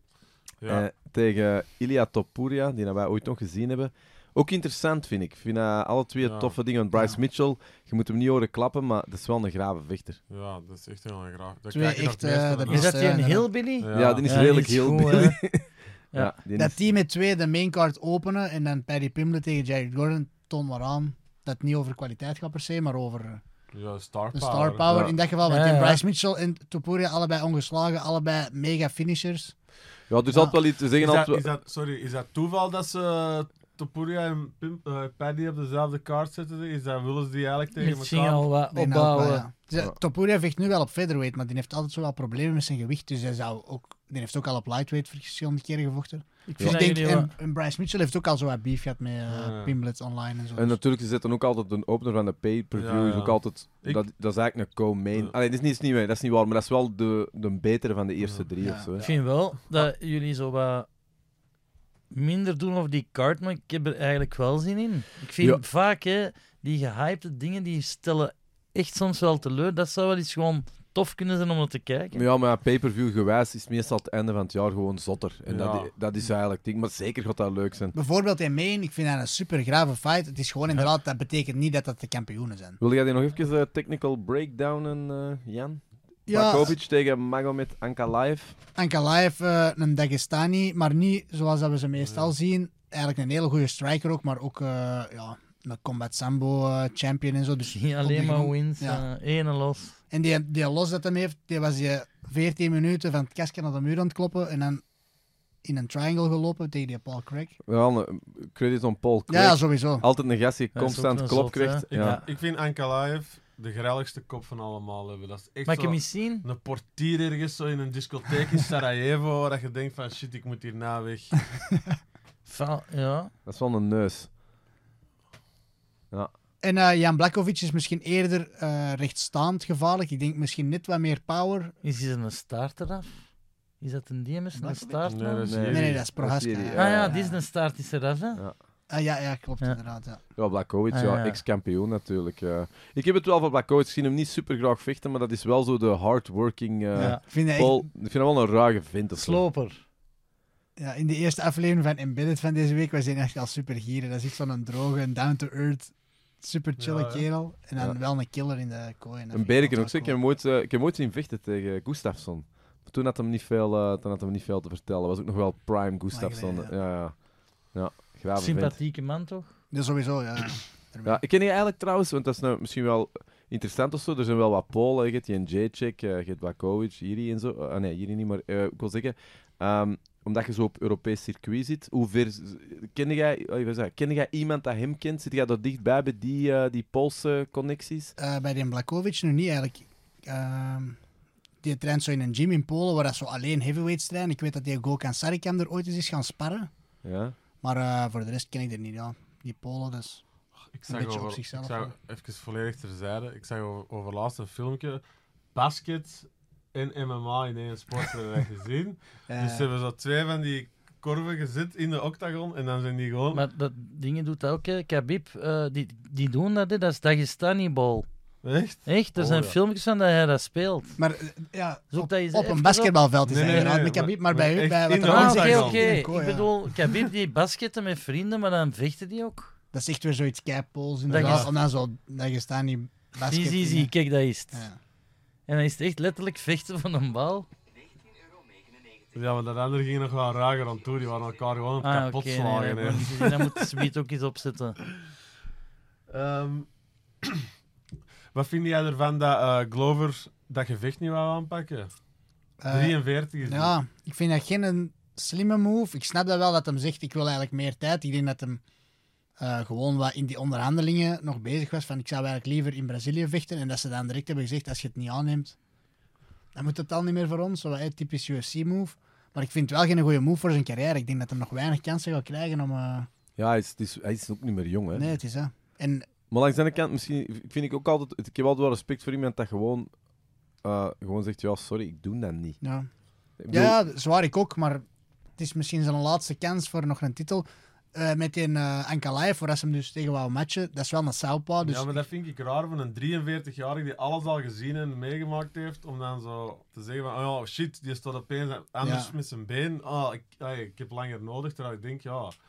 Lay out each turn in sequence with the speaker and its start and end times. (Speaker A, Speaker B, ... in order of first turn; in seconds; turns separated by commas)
Speaker A: 0.7-10.2, Speaker B: 6.2-6.5, Speaker B: 10.3-13.0, Speaker C: 11.7-13.5, Speaker D: 12.7-15.4, Speaker B: 13.8-14.3, Speaker A: 13.9-16.8, Speaker C: 16.6-23.4, Speaker B: 23.7-24.9, Speaker C: 24.3-29.6, Speaker D: 25.4-26.0, Speaker A: 30.1-31.4, Speaker C: 30.3-30.6, Speaker B: 30.9-38.5, Speaker D: 37.8-39.5, Speaker C: 38.7-50.8, Speaker D: 46.5-47.3, Speaker B: 49.3-49.7, Speaker A: 50.6-59.0, Speaker B: 52.7-54.0, Speaker B: 58.2-58.5, Speaker C: 58.6-58.9, Speaker D: 59.0-60.9, Speaker D: 62.1-72.2, Speaker A: 72.1-78.0, Speaker B: 75.5-75.9, Speaker C: 77.9-82.8, Speaker A: 82.8-88.5, Speaker C: 86.3-86.8, Speaker C: 88.8-99.0, Speaker B: 92.0-92.3, Speaker D: 97.7-100.0, Speaker C: 100.1-104.8, Speaker C: 105.6-107.6, Speaker A: 107.7-112.2, Speaker C: 109.3-110.0, Speaker D: 110.7-112.2, Speaker B: 111.9-121.3, Speaker D: 115.7-116.5, Speaker D: 122.5-123.3, Speaker A: 123.5-124.3, Speaker C: 126.6-131.7, Speaker D: 131.8-133.2, Speaker D: 133.8-135.5, Speaker C: 134.5-135.0, Speaker B: 135.1-136.0, Speaker A: 135.4-137.1, Speaker C: 135.6-137.4, Speaker D: 136.7-138.4, Speaker C: 138.9-140.2, Speaker A: 140.4-149.4, Speaker D: 140.9-141.4, Speaker C: 146.9-147.9, Speaker D: 147.0-147.2, Speaker D: 149.2-149.8, Speaker C: 150.8-160.2, Speaker B: 156.8-157.3, Speaker A: 159.3-167.2, Speaker C: 166.1-166.7, Speaker A: 167.7-168.7, Speaker D: 168.4-169.5, Speaker C: 169.7-171.2, Speaker A: 171.1-188.1, Speaker C: 188.2-191.0, Speaker C: 191.6-196.7, Speaker A: 197.0-197.3, Speaker C: 197.6-200.2, Speaker B: 200.7-205.0, Speaker C: 200.9-201.9, Speaker B: 205.5-213.4, Speaker C: 209.3-209.7, Speaker D: 213.3-218.1, Speaker B: 218.4-219.6, Speaker D: 218.9-221.0, Speaker C: 221.0-226.7, Speaker D: 221.9-222.9, Speaker B: 223.3-225.9, Speaker D: 225.0-229.5, Speaker C: 229.7-233.9, Speaker D: 231.1-231.5, Speaker B: 231.1-231.5, Speaker D: 233.3-234.7, Speaker D: 235.5-237.5, Speaker B: 239.1-243.6, Speaker D: 241.8-244.8, Speaker B: 246.1-246.7, Speaker B: 247.2-247.5, Speaker B: 248.3-251.9, Speaker C: 252.6-258.6, Speaker B: 252.7-253.7, Speaker C: 259.4-265.6, Speaker C: 266.6-273.1, Speaker A: 273.4-275.1, Speaker C: 274.9-276.1, Speaker A: 276.3-279.9, Speaker A: 280.6-282.6, Speaker C: 282.6-282.9, Speaker A: 283.4-283.7, Speaker C: 283.5-284.9, Speaker C: 285.4-292.0, Speaker B: 291.6-302.3, Speaker C: 298.8-299.1